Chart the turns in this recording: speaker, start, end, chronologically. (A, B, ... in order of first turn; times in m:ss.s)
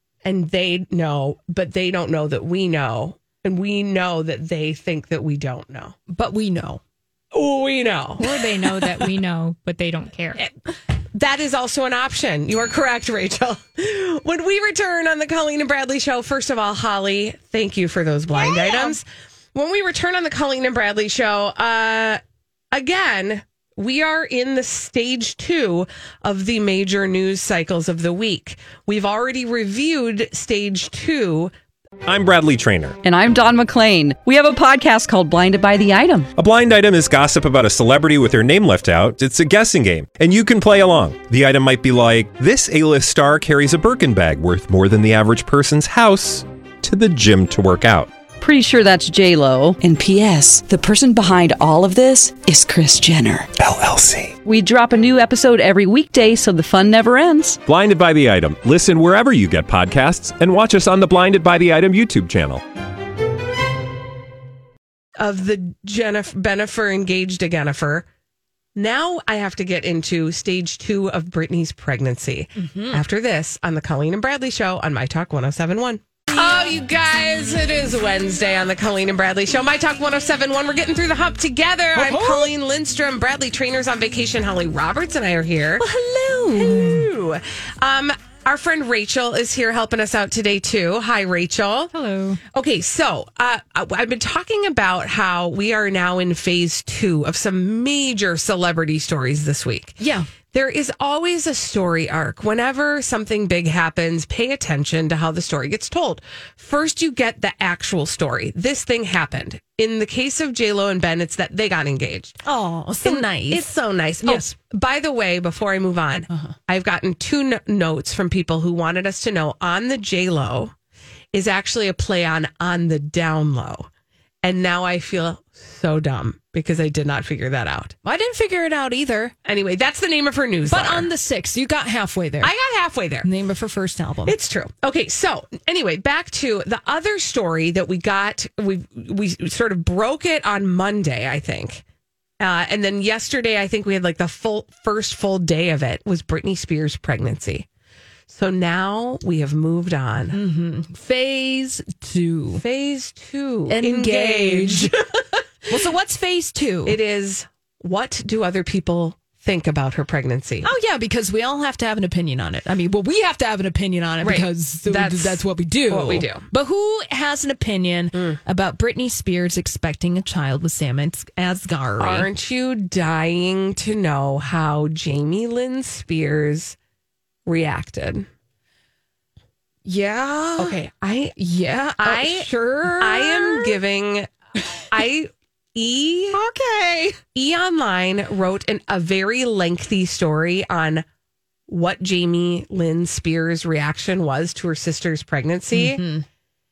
0:00.2-0:06.0 A
0:06.1-0:06.8 B
0:07.3-0:09.0 A
0:08.2-0:10.4 C
0:11.1-0:22.2 A
0:18.3-0:18.9 B
0:22.7-0:31.5 A
0:32.0-0:33.0 D
0:33.0-0:36.3 E
0:36.4-0:48.1 D
0:48.4-0:53.5 E
0:53.6-0:54.3 D
0:54.4-0:57.6 E
0:57.6-1:02.6 D
1:05.2-1:08.1 A
1:08.7-1:25.8 A
1:12.6-1:13.0 B
1:21.9-1:22.5 B
1:25.8-1:27.1 B
1:26.5-1:31.9 A
1:31.9-1:32.4 C
1:32.5-1:40.0 A
1:40.0-1:40.3 B
1:40.5-1:52.4 A
1:52.4-1:53.6 B
1:53.0-2:00.7 A
1:54.2-1:54.5 B
2:01.3-2:03.9 A
2:04.4-2:08.0 A
2:08.0-2:09.3 B
2:09.4-2:11.1 A
2:10.7-2:12.5 B
2:12.4-2:13.3 A
2:13.2-2:14.3 B
2:14.2-2:21.8 A
2:22.4-2:27.7 A
2:28.3-2:30.4 A
2:30.3-2:32.6 B
2:32.5-2:35.8 A
2:33.7-2:34.9 B
2:35.7-2:37.0 B
2:36.8-2:40.7 A
2:40.6-2:52.3 B
2:44.2-2:46.5 A
2:52.0-2:56.8 A
2:57.4-2:58.3 A
2:59.8-3:00.8 B
3:00.6-3:01.4 A
3:01.4-3:03.8 B
3:02.0-3:04.3 A
3:04.9-3:06.4 A
3:06.3-3:07.2 B
3:07.3-3:11.0 A
3:11.7-3:16.0 A
3:15.7-3:16.2 B